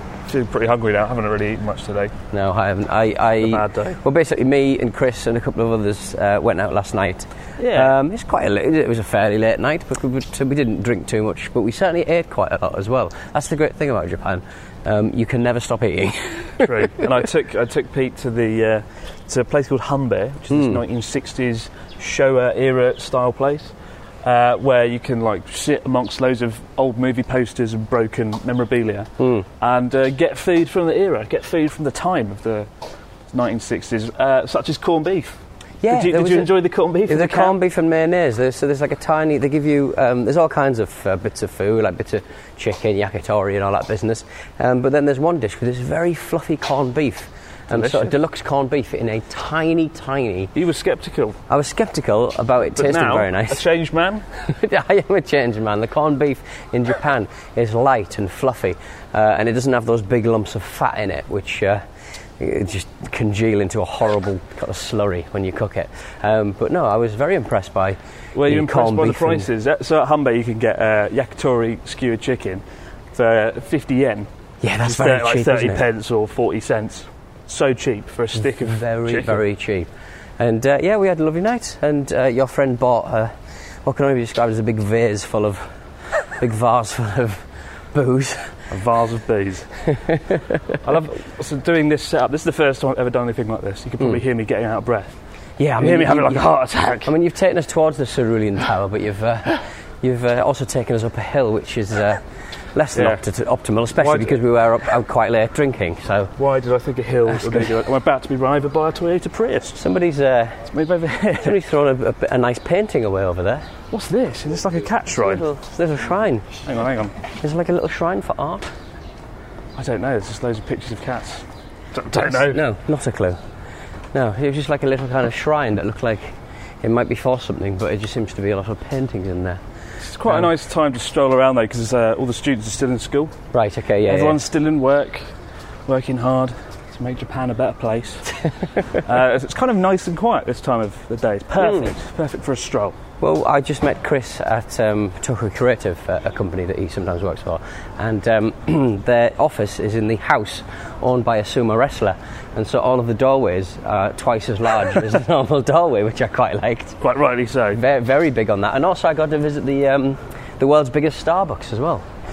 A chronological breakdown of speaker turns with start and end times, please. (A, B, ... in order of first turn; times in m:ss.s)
0:00.3-0:02.1 A
0:02.3-0:17.0 B
0:03.4-0:04.0 A
0:07.6-0:07.9 A
0:16.6-0:32.7 A
0:20.5-0:20.8 B
0:29.2-0:29.5 B
0:33.3-0:35.3 A
0:35.8-0:50.5 B
0:35.9-0:37.6 A
0:47.7-0:48.1 A
0:50.5-0:51.4 A
0:51.5-0:53.6 B
0:52.8-0:54.3 A
0:54.5-1:01.8 B
1:02.4-1:09.5 B
1:08.3-1:14.3 A
1:14.6-1:15.8 B
1:14.8-1:19.4 A
1:18.4-1:19.9 B
1:20.4-1:23.3 B
1:23.8-1:25.6 B
1:26.4-1:28.6 B
1:28.7-1:29.7 A
1:30.1-1:30.4 B
1:30.8-1:35.1 A
1:35.6-1:36.5 B
1:35.8-1:37.1 A
1:37.0-1:42.2 B
1:42.7-1:46.3 B
1:42.9-1:43.2 A
1:44.0-1:44.4 A
1:46.4-1:49.8 A
1:47.3-1:47.7 B
1:49.8-1:50.6 B
1:50.7-1:51.6 A
1:51.4-1:53.6 B
1:53.9-1:55.4 A
1:55.1-1:56.5 B
1:56.6-1:57.1 A
1:57.4-1:58.7 B
1:59.8-2:02.6 A
2:02.2-2:03.4 B
2:04.1-2:09.6 B
2:10.0-2:13.3 A
2:13.5-2:14.4 B
2:14.1-2:15.2 A
2:15.8-2:18.3 A
2:19.0-2:23.0 A
2:21.6-2:21.9 B
2:23.2-2:37.0 B
2:37.0-2:37.8 A
2:37.7-2:42.0 B